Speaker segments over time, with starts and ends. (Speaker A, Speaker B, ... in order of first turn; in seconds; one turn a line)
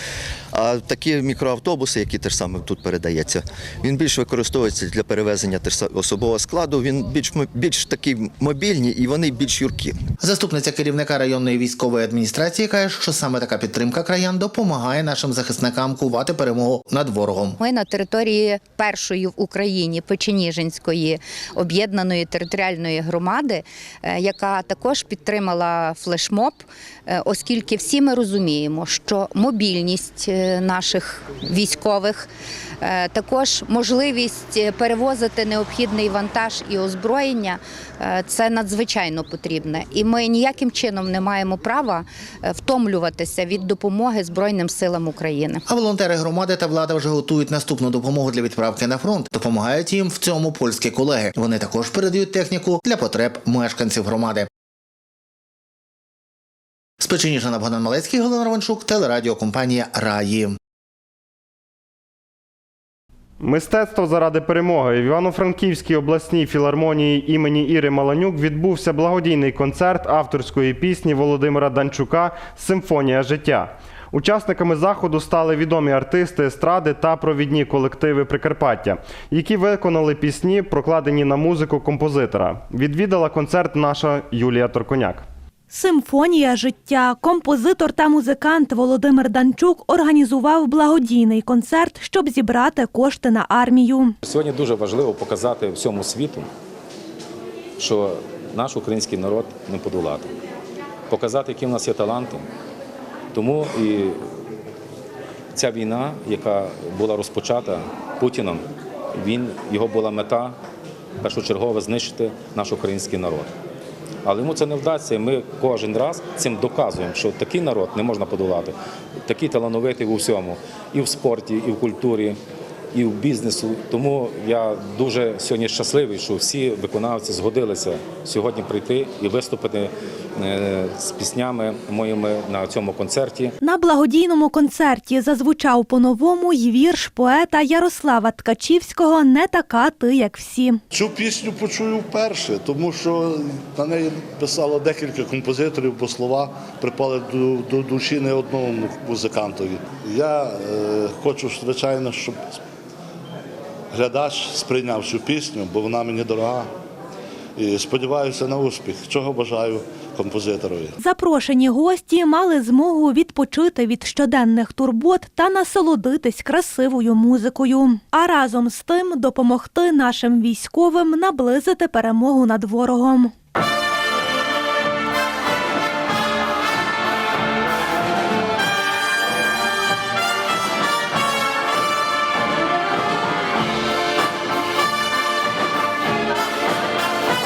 Speaker A: 0.5-10.0
Speaker B: 10.2-17.6
Speaker C: 17.6-32.3
Speaker C: 32.8-45.6
Speaker B: 45.7-54.5
Speaker B: 57.0-60.6
Speaker D: 63.4-85.3
Speaker E: 85.7-94.2
Speaker F: 94.2-96.5
Speaker F: 97.8-100.3
Speaker F: 101.1-102.5
Speaker F: 103.3-104.3
Speaker F: 105.5-110.6
Speaker F: 111.2-113.5
Speaker F: 114.2-122.4
Speaker F: 122.9-133.6
Speaker E: 133.6-140.8
Speaker G: 140.9-152.6
Speaker G: 153.9-156.7
Speaker G: 157.6-160.9
Speaker E: 161.0-173.3